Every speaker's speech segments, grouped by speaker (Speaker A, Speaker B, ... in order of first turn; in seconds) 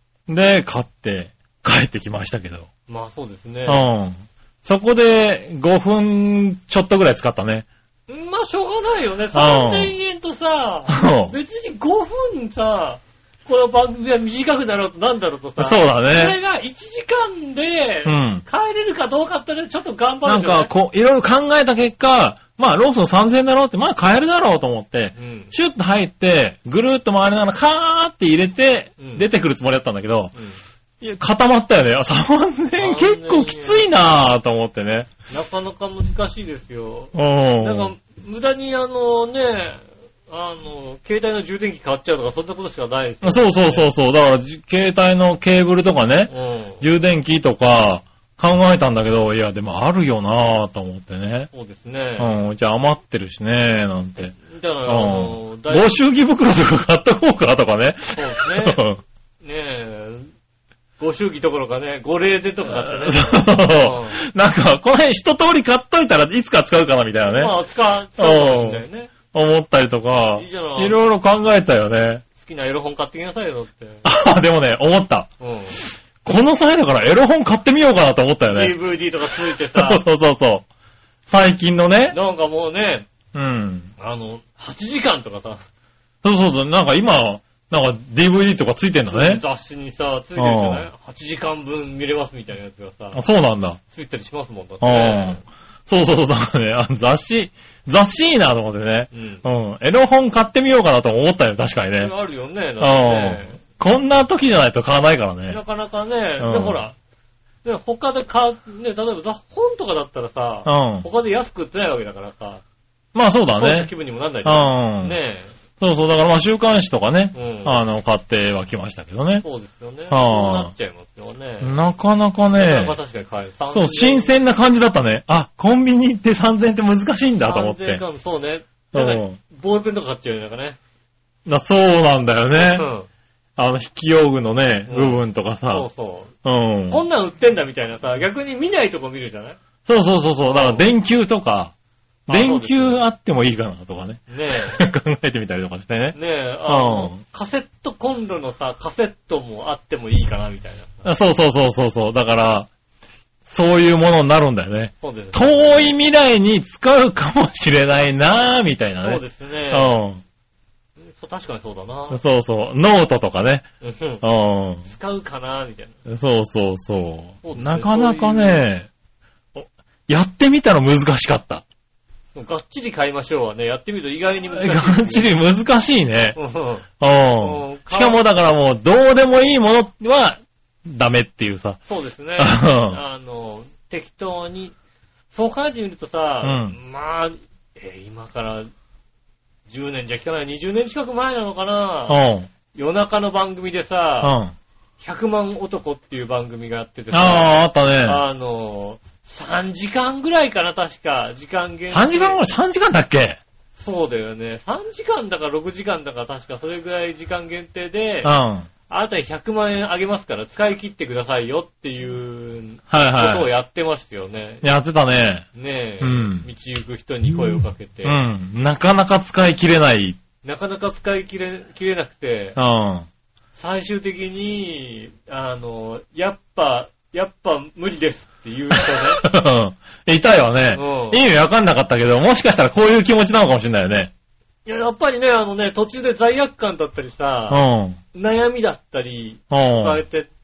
Speaker A: 0.3-2.7, 3.6-7.7, 9.3-9.9, 10.9-11.3, 15.6-16.4, 18.0-18.4, 20.2-30.3, 31.0-35.1, 37.1-37.9, 43.2-51.5, 52.2-59.0, 62.7-67.6, 68.2-72.2, 74.0-75.3, 76.2-78.8, 79.5-80.7, 81.3-82.2, 83.3-83.9, 86.2-89.4, 90.4-90.9, 93.1-93.8, 94.8-102.1, 102.8-105.6, 106.4-106.8, 110.7-111.1, 113.1-113.9, 114.5-115.2, 115.8-119.5, 120.1-120.7, 121.6-123.0, 123.7-128.0, 128.9-129.4, 131.5-132.9, 133.6-135.9, 136.4-137.0, 139.9-141.7, 142.3-147.2, 151.0-152.7, 153.5-160.2, 162.1-163.6, 164.2-164.9, 166.1-168.9, 169.5-171.6, 174.5-176.4, 177.0-181.8, 182.4-183.0, 186.4-186.8, 192.1-192.5, 194.2-194.5, 197.1-198.2, 201.9-203.4, 208.2-208.7, 212.9-213.5, 214.6-215.5, 216.0-216.5, 218.0-220.2, 222.6-223.1, 228.7-234.1, 237.5-238.0, 239.5-240.0
Speaker B: 2.9-3.9, 8.1-20.7, 25.1-25.5, 29.0-29.2, 32.8-33.9, 35.3-43.9, 46.3-46.8, 51.5-52.3, 54.5-56.0, 58.1-58.8, 59.4-60.3, 61.0-64.2, 67.2-69.1, 70.2-71.0, 72.4-74.0, 75.4-75.8, 78.5-80.0, 82.1-83.1, 84.0-85.6, 89.1-93.2, 93.9-95.4, 99.1-99.4, 102.0-103.6, 105.5-107.0, 107.6-112.6, 113.6-115.5, 117.3-117.8, 119.4-121.8, 122.5-124.3, 127.4-130.8, 132.5-133.1, 134.9-136.3, 136.9-139.6, 140.5-140.9, 142.3-143.0, 144.3-144.8, 146.1-151.1, 155.0-155.9, 159.0-160.0, 161.0-162.2, 163.8-164.2, 164.8-166.0, 167.4-168.7, 172.3-175.3, 176.3-176.9, 177.4-178.2, 181.9-184.8, 185.3-188.7, 189.7-192.2, 192.7-194.4, 195.0-202.4, 203.8-208.3, 208.9-214.7, 215.5-218.2, 220.4-222.6, 223.6-229.2, 230.7-231.2, 234.7-237.6, 238.1-240.3